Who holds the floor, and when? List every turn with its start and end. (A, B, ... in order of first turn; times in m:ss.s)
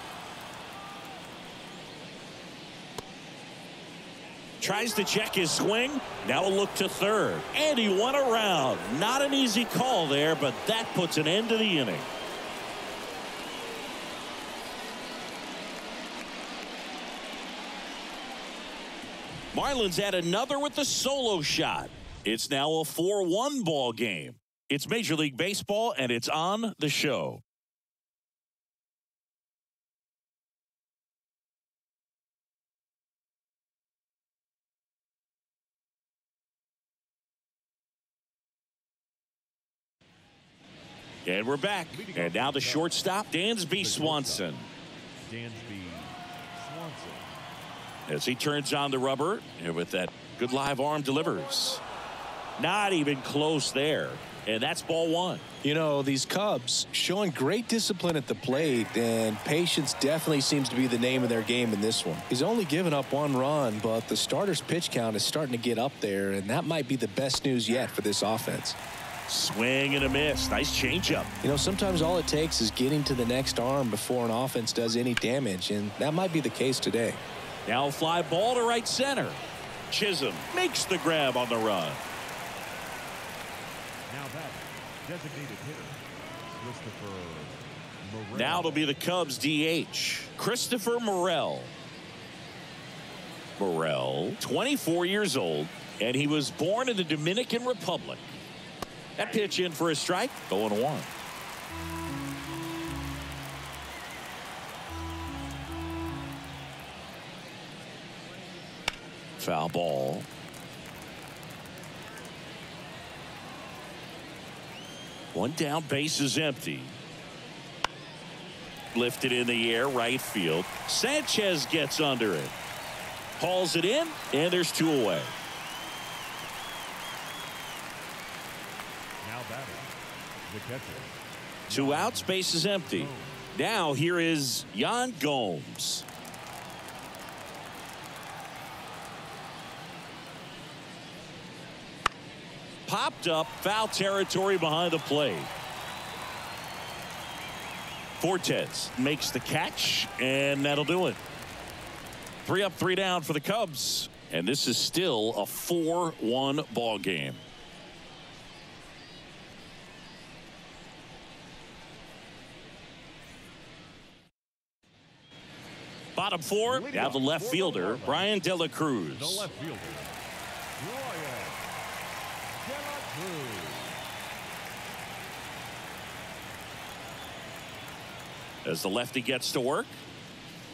0:04.6-0:12.1 A
0:19.5-0:27.4 A
0:41.2-0:44.7 A
0:41.9-0:43.1 B
0:43.7-0:44.5 B
0:45.2-0:47.3 B
0:48.1-0:51.8 A
0:52.6-0:55.4 A
0:55.6-1:08.8 C
1:09.3-1:11.3 A
1:11.4-1:17.2 C
1:17.6-1:22.0 A
1:24.1-1:29.0 B
1:28.3-1:31.7 A
1:33.6-1:38.4 A
1:39.2-1:41.1 A
1:49.4-1:50.3 A
1:55.3-1:57.0 A
1:58.9-2:02.5 A
2:03.4-2:05.3 A
2:09.2-2:09.9 B
2:10.5-2:11.1 B
2:11.7-2:16.0 A
2:11.7-2:12.4 B
2:12.9-2:13.4 B
2:22.9-2:25.5 A
2:28.2-2:31.2 A
2:32.4-2:37.4 A
2:46.2-2:49.5 A
2:46.6-2:48.3 B
2:49.1-2:50.2 B
2:50.8-2:51.6 B
2:52.6-2:54.0 B
2:58.6-3:00.0 A